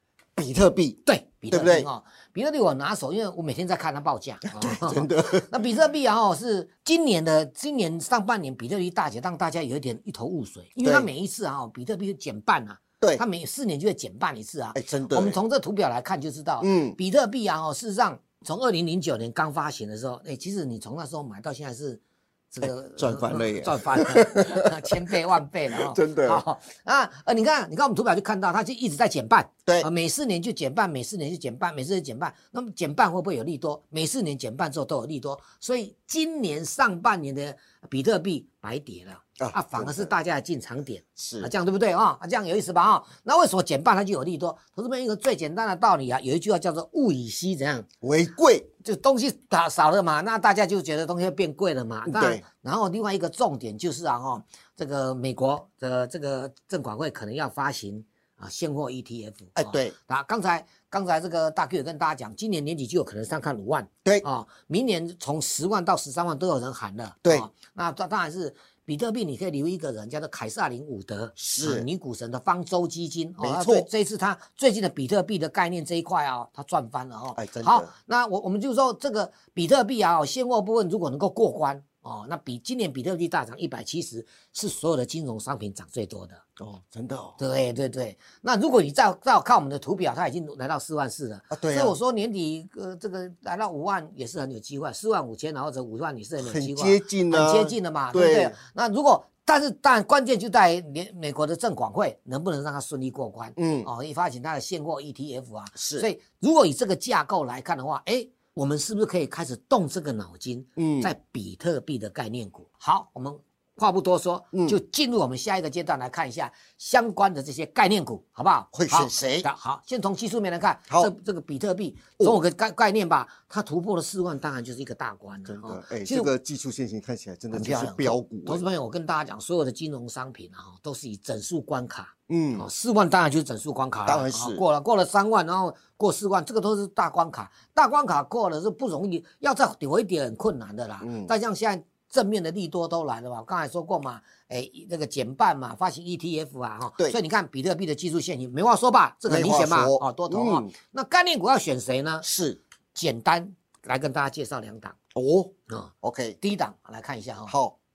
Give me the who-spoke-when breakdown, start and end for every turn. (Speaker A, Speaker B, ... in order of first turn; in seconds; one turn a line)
Speaker A: 0.4-1.9
Speaker B: 1.1-47.9
Speaker A: 4.5-5.7
Speaker A: 14.8-15.4
Speaker A: 16.6-17.0
Speaker A: 22.6-25.2
Speaker A: 25.7-26.4
Speaker A: 39.4-40.1
Speaker A: 41.2-41.5
Speaker A: 48.0-48.7
Speaker B: 48.8-86.4
Speaker A: 52.0-52.4
Speaker A: 59.6-60.0
Speaker A: 71.4-71.8
Speaker A: 73.4-73.9
Speaker A: 77.4-77.9
Speaker A: 86.6-87.4
Speaker B: 87.4-126.3
Speaker A: 91.5-92.0
Speaker A: 96.4-98.6
Speaker A: 103.6-103.9
Speaker A: 105.8-106.1
Speaker A: 110.8-111.1
Speaker A: 114.5-114.8
Speaker A: 118.7-119.5
Speaker A: 125.5-128.6
Speaker B: 127.5-152.3
Speaker A: 132.3-132.7
Speaker A: 134.1-134.6
Speaker A: 141.0-141.3
Speaker A: 149.3-150.7
Speaker A: 152.2-152.6
Speaker B: 152.9-155.0
Speaker A: 155.2-156.4
Speaker B: 155.7-157.5
Speaker A: 157.5-157.8